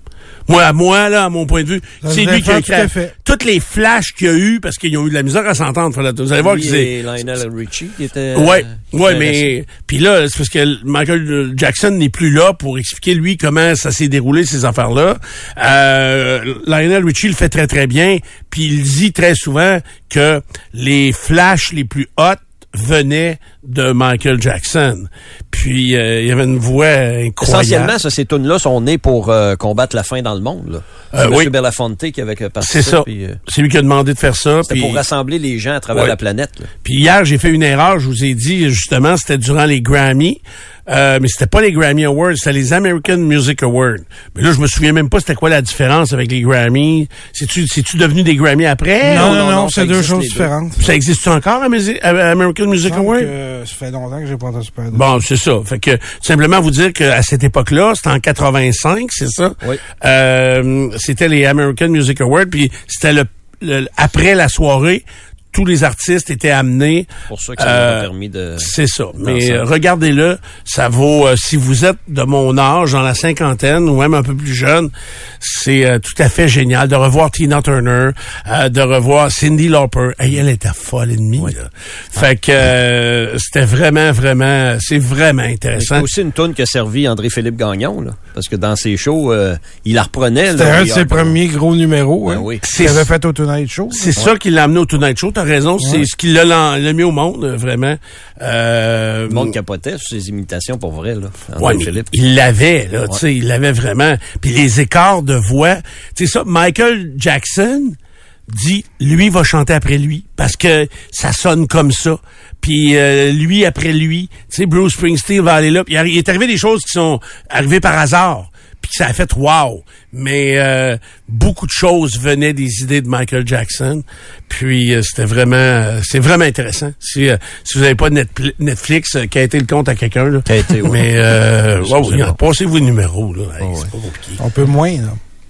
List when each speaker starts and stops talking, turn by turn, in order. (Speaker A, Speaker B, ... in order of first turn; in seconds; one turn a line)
Speaker A: 0.5-6.9
Speaker B: 2.0-3.1
Speaker C: 6.4-9.5
Speaker A: 8.3-27.9
Speaker C: 27.4-33.4
Speaker A: 31.1-31.5
Speaker A: 32.6-35.0
Speaker C: 34.6-36.7
Speaker A: 36.8-49.4
Speaker B: 49.0-50.8
Speaker C: 49.1-50.5
Speaker A: 50.8-53.3
Speaker B: 52.8-55.1
Speaker A: 54.9-86.1
Speaker C: 67.3-69.6
Speaker C: 85.8-91.3
Speaker B: 90.5-94.3
Speaker C: 92.2-92.6
Speaker A: 92.6-93.1
Speaker A: 93.9-99.5
Speaker B: 95.8-96.0
Speaker C: 99.3-102.1
Speaker A: 101.6-108.0
Speaker A: 108.5-134.4
Speaker C: 130.5-132.4
Speaker C: 133.6-133.9
Speaker B: 134.4-135.2